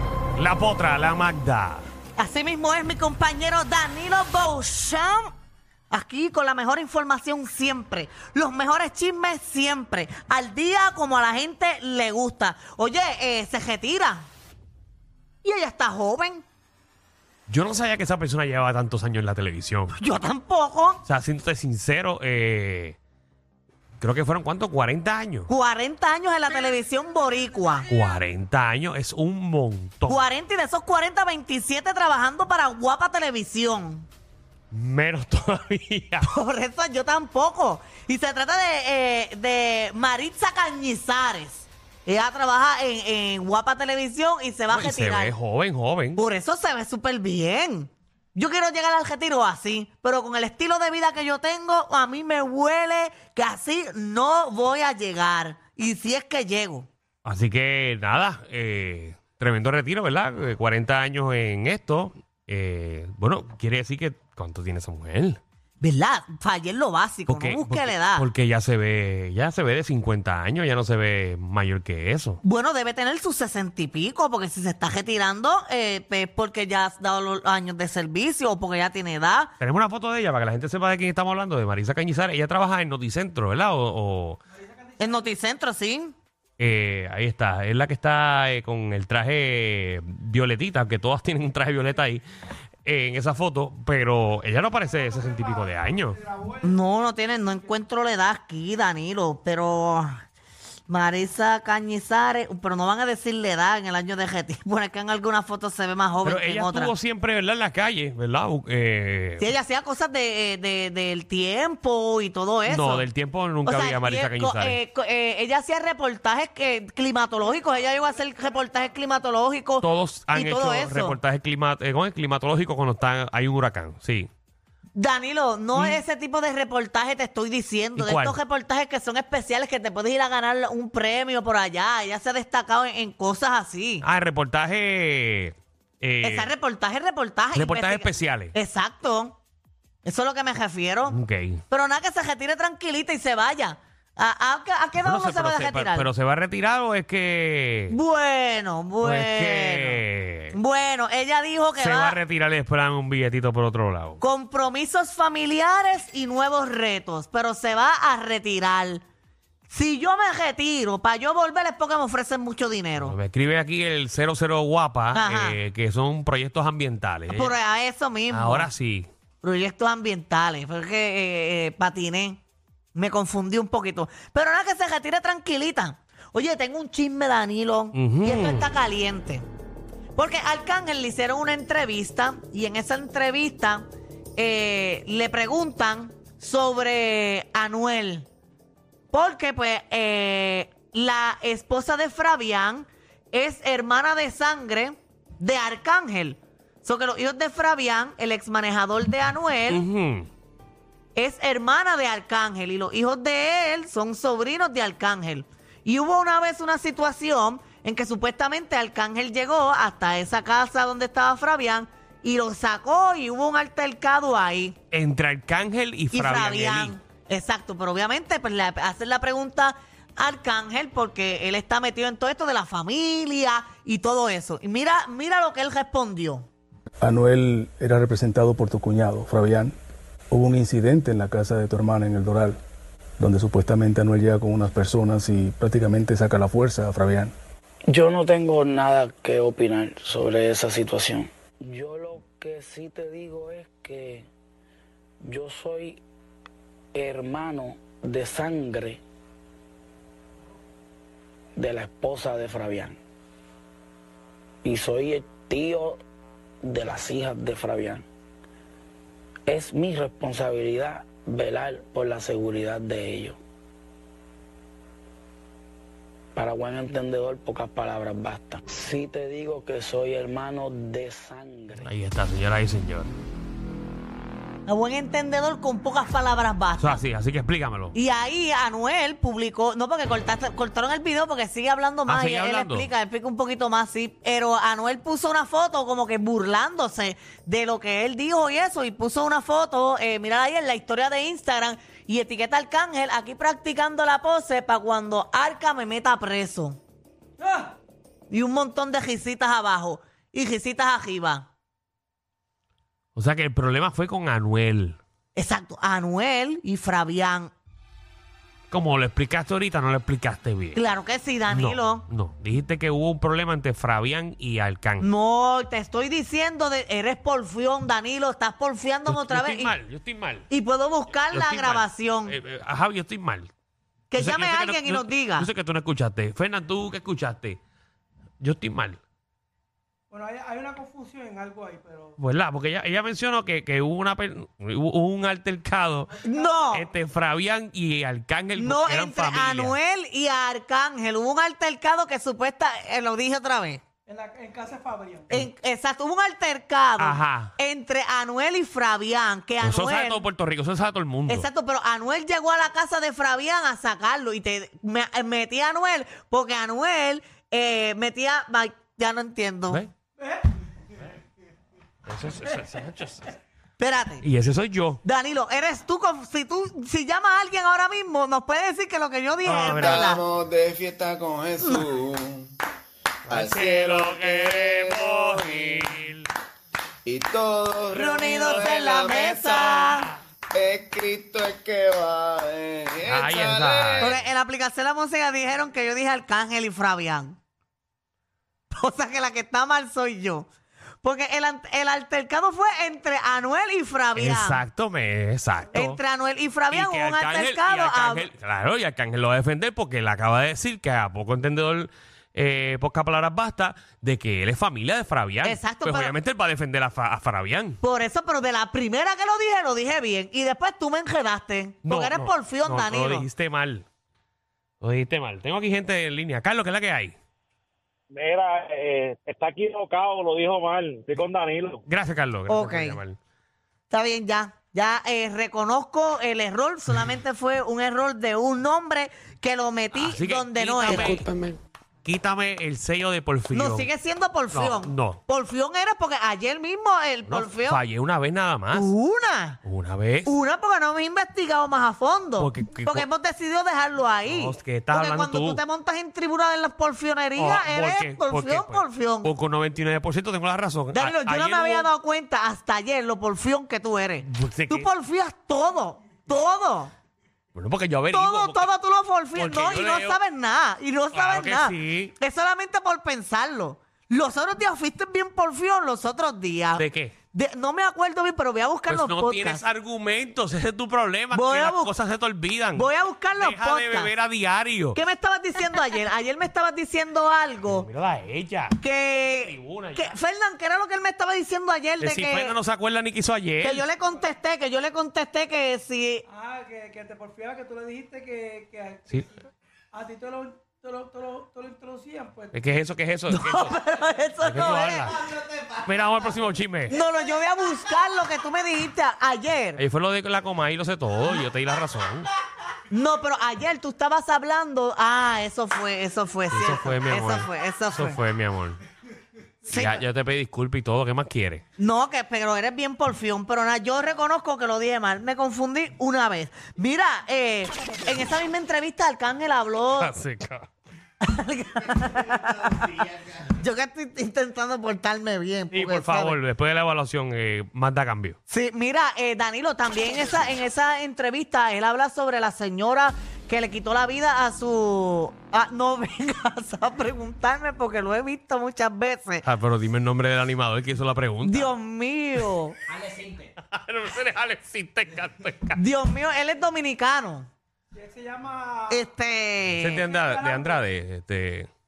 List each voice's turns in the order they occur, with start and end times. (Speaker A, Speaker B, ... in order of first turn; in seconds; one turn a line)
Speaker A: 0.3-1.8
Speaker B: 2.2-5.3
Speaker B: 5.9-14.2
Speaker B: 15.4-16.4
Speaker A: 17.5-19.9
Speaker B: 20.0-21.0
Speaker A: 21.0-22.9
Speaker A: 24.0-25.5
Speaker B: 25.5-27.9
Speaker A: 27.9-30.2
Speaker B: 30.1-34.1
Speaker A: 34.7-36.3
Speaker B: 36.2-45.3
Speaker A: 44.7-46.2
Speaker B: 46.1-56.9
Speaker A: 57.2-65.4
Speaker B: 65.8-68.3
Speaker A: 67.3-72.4
Speaker B: 72.4-79.5
Speaker A: 79.6-84.4
Speaker B: 85.0-86.1
Speaker A: 86.6-92.2
Speaker A: 92.8-96.2
Speaker B: 96.5-100.2
Speaker B: 100.9-106.9
Speaker A: 106.2-109.5
Speaker B: 109.4-113.0
Speaker A: 112.7-114.8
Speaker B: 113.6-121.2
Speaker A: 119.8-124.3
Speaker B: 124.9-134.0
Speaker A: 128.0-128.4
Speaker A: 134.0-136.5
Speaker B: 136.2-139.3
Speaker A: 137.5-138.5
Speaker B: 140.0-141.2
Speaker A: 141.1-141.6
Speaker B: 141.7-146.1
Speaker A: 145.0-148.0
Speaker B: 147.9-150.0
Speaker A: 149.0-150.6
Speaker B: 150.5-152.2
Speaker A: 151.8-154.2
Speaker B: 154.2-159.0
Speaker B: 159.7-163.2
Speaker A: 163.0-167.5
Speaker B: 165.1-165.6
Speaker B: 167.3-168.7
Speaker A: 168.3-169.1
Speaker B: 169.4-172.4
Speaker B: 172.9-179.4
Speaker A: 177.9-178.7
Speaker B: 180.1-183.8
Speaker B: 184.4-188.3
Speaker B: 189.1-199.8
Speaker A: 199.7-200.3
Speaker B: 201.1-214.8
Speaker A: 214.9-217.0
Speaker B: 216.1-226.5
Speaker C: 227.0-229.7
Speaker C: 230.3-232.6
Speaker C: 233.2-237.3
Speaker D: 237.9-244.3
Speaker D: 245.2-246.0
Speaker D: 246.9-249.0
Speaker D: 251.6-253.0
Speaker D: 254.6-256.0
Speaker D: 256.6-258.0
Speaker D: 259.5-263.4
Speaker D: 266.3-271.9
Speaker A: 271.8-273.1
Speaker B: 274.7-277.0
Speaker A: 276.8-277.9
Speaker B: 277.9-296.8
Speaker A: 282.1-282.9
Speaker E: 297.4-297.7
Speaker B: 298.3-301.5
Speaker A: 303.1-305.0
Speaker B: 305.3-307.5
Speaker A: 308.7-310.8
Speaker B: 310.7-312.0
Speaker A: 311.5-315.1
Speaker B: 315.0-319.7
Speaker A: 319.1-320.5
Speaker B: 320.5-322.3
Speaker A: 321.3-323.5
Speaker B: 324.1-325.5
Speaker A: 324.1-327.6
Speaker A: 328.4-329.0
Speaker E: 330.1-332.1
Speaker A: 332.2-336.2
Speaker B: 336.2-336.8
Speaker A: 336.7-339.8
Speaker B: 338.6-343.8
Speaker E: 344.1-345.3
Speaker B: 345.3-350.2
Speaker A: 347.0-347.5
Speaker A: 349.6-351.5
Speaker B: 351.3-359.8
Speaker A: 362.1-363.3
Speaker B: 363.8-364.2
Speaker A: 364.2-365.0
Speaker B: 365.0-370.2
Speaker A: 369.4-370.2
Speaker F: 369.5-372.5
Speaker A: 373.3-376.3
Speaker F: 373.3-375.9
Speaker F: 377.1-380.0
Speaker B: 377.9-380.1
Speaker F: 380.5-384.1
Speaker A: 383.0-384.3
Speaker B: 384.0-387.4
Speaker B: 388.7-390.5
Speaker B: 391.0-394.6
Speaker A: 394.2-396.0
Speaker B: 395.7-398.3
Speaker A: 396.7-407.8
Speaker B: 405.4-406.1
Speaker B: 407.8-413.2
Speaker A: 411.8-413.8
Speaker A: 414.8-417.1
Speaker G: 418.1-421.8
Speaker A: 421.9-423.2
Speaker B: 422.5-423.0
Speaker B: 423.9-431.2
Speaker A: 429.9-431.3
Speaker A: 432.0-433.9
Speaker B: 433.5-437.8
Speaker A: 434.5-435.2
Speaker A: 437.2-438.9
Speaker B: 438.7-439.6
Speaker A: 439.6-440.3
Speaker B: 440.2-449.3
Speaker A: 442.4-443.1
Speaker A: 444.2-445.6
Speaker A: 447.4-451.9
Speaker B: 450.9-456.9
Speaker A: 454.2-454.9
Speaker A: 457.5-458.7
Speaker B: 458.1-469.6
Speaker A: 459.3-460.2
Speaker A: 461.1-462.1
Speaker A: 466.8-467.1
Speaker A: 468.9-475.0
Speaker B: 471.3-471.9
Speaker B: 472.7-474.1
Speaker B: 474.9-477.9
Speaker A: 477.6-480.1
Speaker B: 478.8-482.6
Speaker A: 482.0-483.9
Speaker B: 483.6-486.2
Speaker E: 486.3-489.1
Speaker E: 489.9-492.5
Speaker A: 492.5-493.8
Speaker B: 493.3-495.1
Speaker A: 494.4-496.9
Speaker B: 496.9-499.8
Speaker A: 499.8-502.3
Speaker B: 502.9-508.2
Speaker A: 506.5-508.8
Speaker B: 509.6-510.0
Speaker A: 509.7-511.6
Speaker B: 511.8-520.1
Speaker A: 520.0-520.7
Speaker B: 521.2-526.4
Speaker A: 525.7-528.4
Speaker B: 528.5-539.4
Speaker A: 539.4-541.7
Speaker B: 541.4-542.8
Speaker A: 543.3-545.8
Speaker B: 545.8-547.5
Speaker E: 548.0-549.0
Speaker B: 548.9-550.0
Speaker A: 549.8-551.7
Speaker E: 550.1-550.8